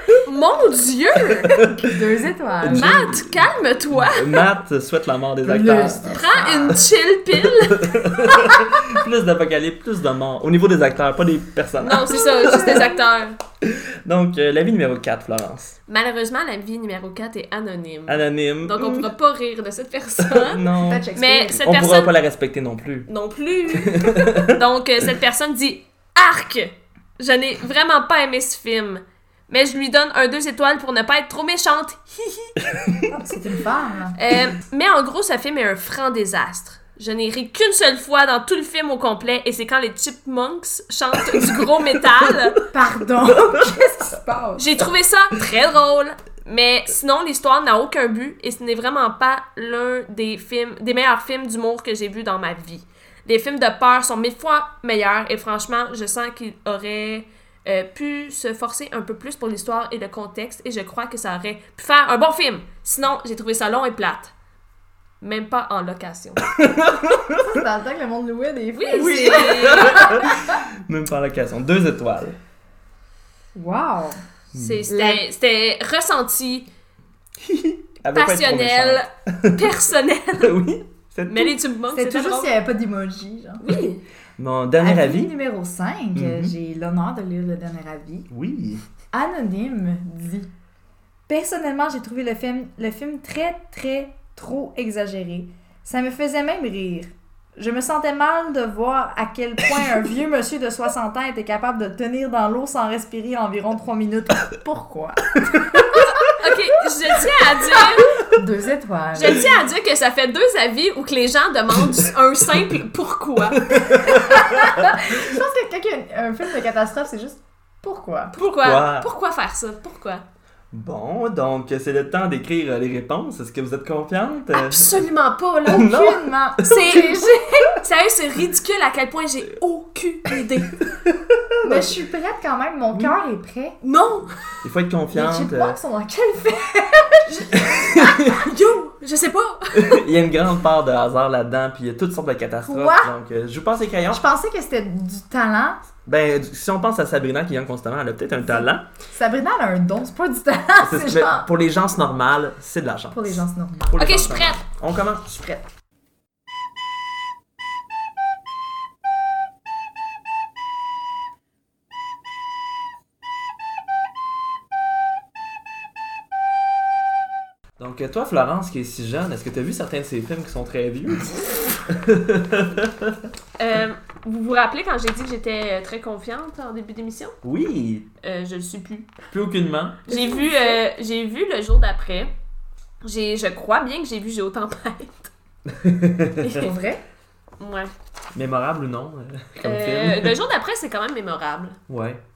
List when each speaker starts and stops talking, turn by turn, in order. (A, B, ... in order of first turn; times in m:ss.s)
0:00.2-0:01.6 A
0:01.3-0:01.8 B
0:01.5-0:03.0 C
0:02.6-0:06.1 B
0:02.6-0:04.5 A
0:05.4-0:06.8 C
0:06.1-0:08.1 A
0:07.4-0:12.9 B
0:08.4-0:08.6 C
0:11.8-0:13.4 A
0:12.3-0:12.9 C
0:13.6-0:15.8 B
0:15.9-0:22.1 A
0:18.1-0:19.1 B
0:20.2-0:21.1 B
0:20.8-0:21.6 C
0:21.6-0:23.1 B
0:23.1-0:32.7 A
0:23.7-0:24.6 B
0:33.1-0:34.2 C
0:34.2-0:42.6 A
0:41.2-0:42.5 B
0:42.7-0:44.8 C
0:43.2-0:43.8 B
0:44.6-1:04.3 A
1:05.2-1:06.5 A
1:06.5-1:07.6 B
1:07.4-1:10.6 C
1:08.8-1:10.2 A
1:09.0-1:12.4 B
1:13.6-1:14.2 C
1:14.5-1:16.7 A
1:14.6-1:14.8 B
1:14.9-1:15.2 C
1:17.4-1:19.8 B
1:18.1-1:20.6 A
1:20.4-1:21.6 B
1:21.3-1:22.5 A
1:21.9-1:23.6 C
1:23.6-1:24.0 A
1:24.4-1:25.4 B
1:24.8-1:28.3 C
1:26.2-1:26.6 B
1:28.3-1:28.8 B
1:29.1-1:30.5 C
1:31.3-1:46.4 C
1:46.3-1:48.2 A
1:47.6-1:49.5 C
1:49.1-1:53.8 A
1:53.6-1:55.2 B
1:53.9-1:58.4 C
1:58.4-2:00.2 A
1:58.6-1:59.1 B
2:00.7-2:05.1 B
2:04.5-2:05.9 A
2:05.7-2:07.1 B
2:05.7-2:07.8 C
2:06.7-2:10.8 A
2:11.0-2:11.9 B
2:11.6-2:13.8 C
2:13.8-2:14.3 A
2:14.6-2:15.8 B
2:15.1-2:18.0 C
2:17.6-2:18.4 B
2:17.9-2:20.1 A
2:19.7-2:24.2 B
2:22.6-2:23.1 C
2:24.1-2:25.9 C
2:26.0-2:28.9 B
2:29.1-2:31.5 C
2:30.8-2:35.6 B
2:33.1-2:34.0 C
2:34.0-2:34.6 A
2:47.8-2:53.3 B
2:53.6-2:57.4 A
2:57.4-2:58.1 B
2:58.2-2:59.2 A
2:59.3-3:00.1 B
3:00.1-3:02.3 A
3:00.1-3:00.8 C
3:03.0-3:05.3 A
3:05.7-3:06.7 B
3:06.4-3:07.0 C
3:07.6-3:07.9 A
3:08.4-3:10.4 B
3:09.6-3:11.8 A
3:11.9-3:12.2 B